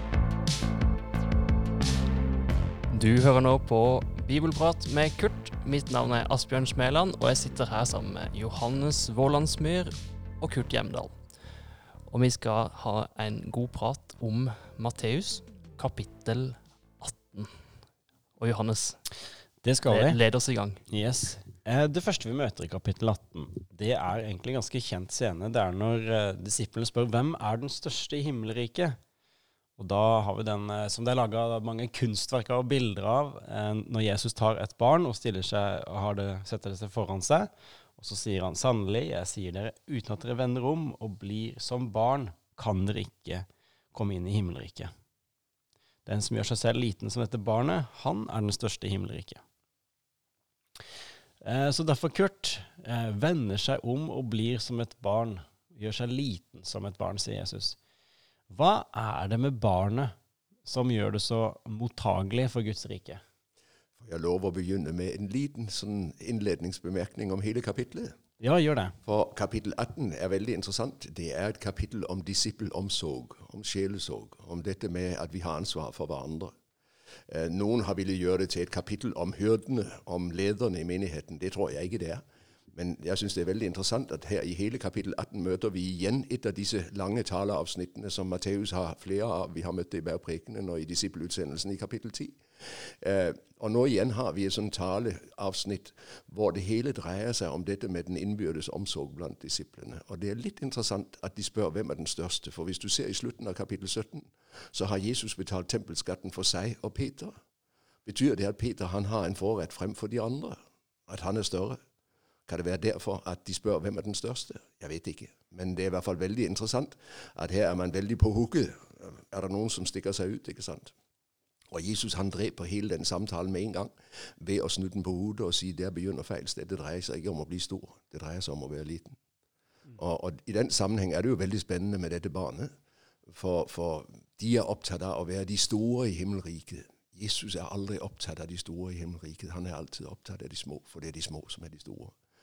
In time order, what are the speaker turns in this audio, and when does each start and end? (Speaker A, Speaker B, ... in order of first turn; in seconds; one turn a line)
Speaker A: 2.9-11.2
Speaker A: 12.1-17.6
Speaker A: 18.4-19.0
Speaker B: 19.6-20.2
Speaker A: 19.9-20.8
Speaker B: 20.9-29.0
Speaker B: 29.8-44.9
Speaker B: 46.0-49.4
Speaker B: 51.4-57.8
Speaker B: 58.5-60.1
Speaker B: 60.6-63.2
Speaker C: 64.0-68.2
Speaker B: 68.4-69.0
Speaker C: 69.0-76.5
Speaker C: 77.3-107.3
Speaker C: 108.0-111.8
Speaker C: 112.5-120.9
Speaker C: 121.7-129.2
Speaker C: 129.9-132.7
Speaker C: 133.3-142.2